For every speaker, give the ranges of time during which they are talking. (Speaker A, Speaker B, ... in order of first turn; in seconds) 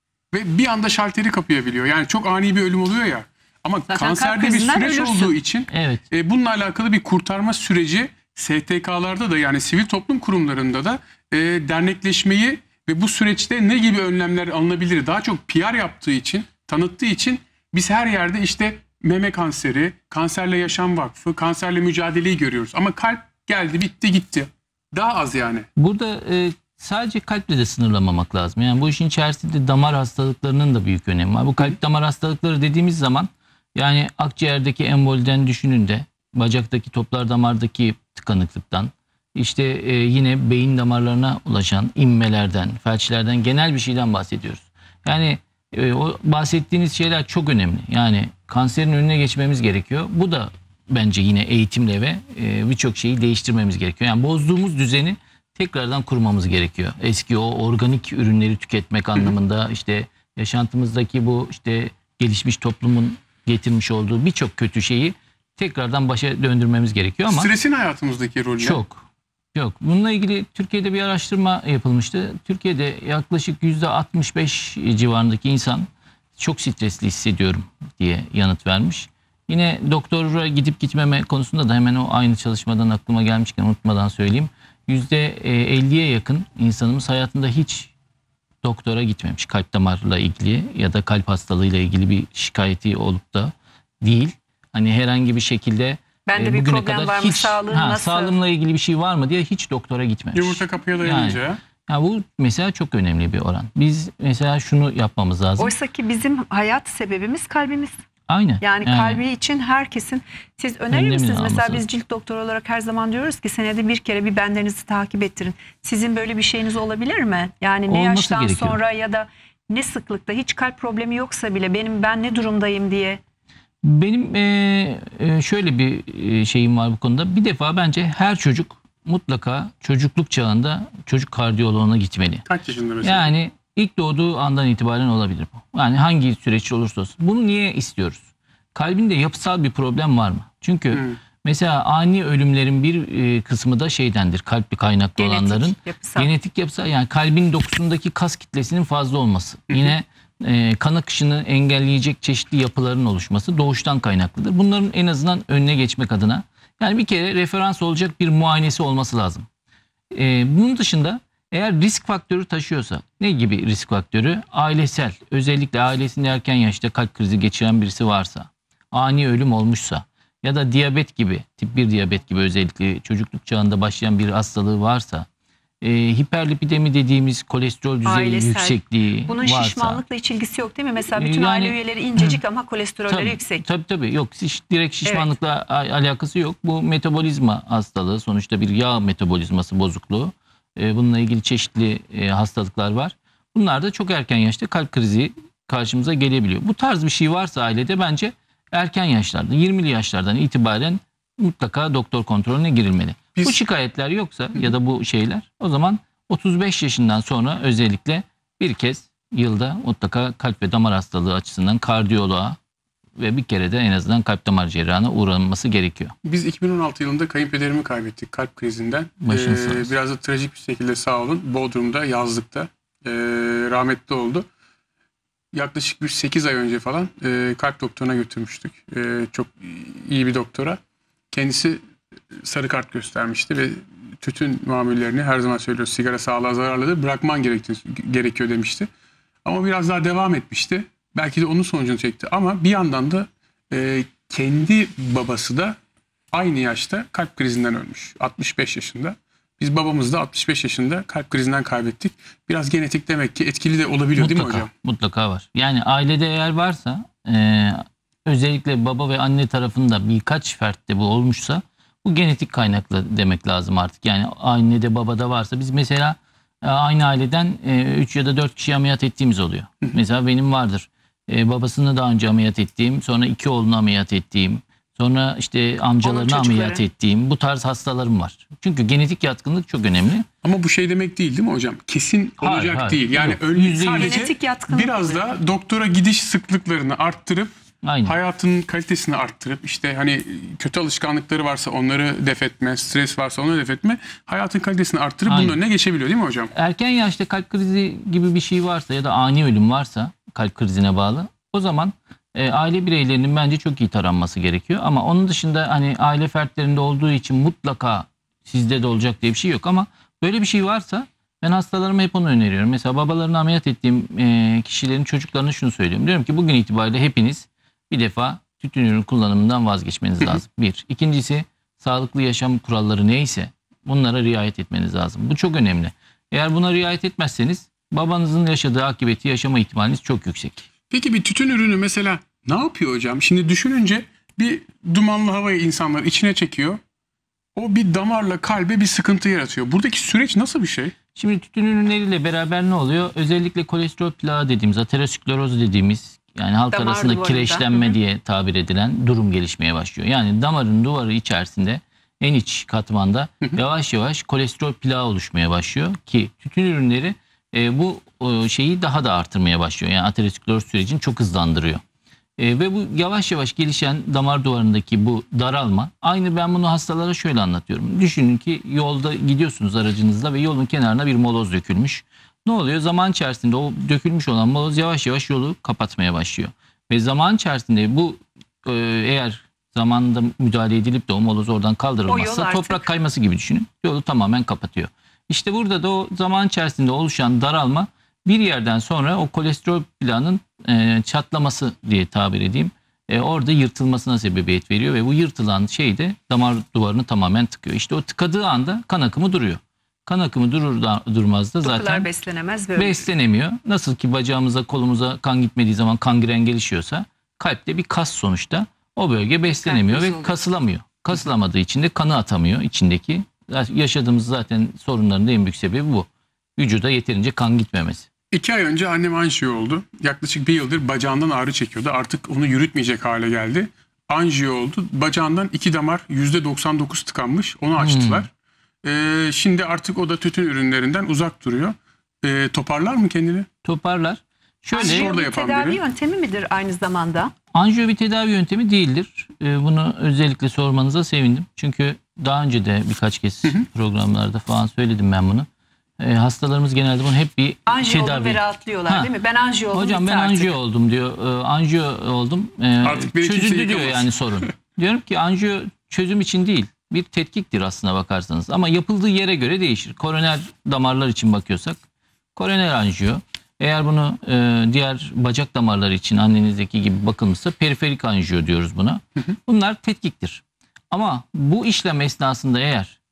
Speaker A: 0.3-25.7, 67.3-68.8, 100.3-101.6, 132.4-133.3, 216.2-224.5, 225.5-230.8, 231.3-231.8, 232.3-238.9, 239.4-245.8, 246.3-254.7, 280.4-296.5, 330.9-336.8, 337.6-340.9, 418.3-428.3, 428.8-433.5, 434.7-435.8, 452.8-454.4
Speaker B: 3.9-5.3, 96.3-98.3, 105.6-107.9, 108.6-123.2, 145.2-146.3, 178.0-183.6, 185.0-185.3, 276.0-276.8, 284.0-285.2, 346.7-347.9, 382.1-382.8, 401.6-403.1, 409.5-410.3, 434.7-437.3, 447.7-450.5
Speaker C: 5.7-6.0, 25.8-67.5, 68.6-87.9, 88.6-105.7, 108.3-109.2, 110.9-111.8, 117.9-118.8, 123.8-132.4, 133.0-138.2, 138.7-159.5, 160.1-175.3, 175.8-180.0, 181.2-182.4, 183.1-212.6, 213.2-216.1, 219.2-219.9, 254.2-280.3, 282.4-284.2, 287.8-288.2, 295.3-295.6, 296.5-330.7, 341.1-361.8, 362.4-402.1, 402.8-418.1, 427.8-428.3, 433.6-435.1, 437.5-445.5, 446.0-449.1, 449.7-461.8, 462.4-473.0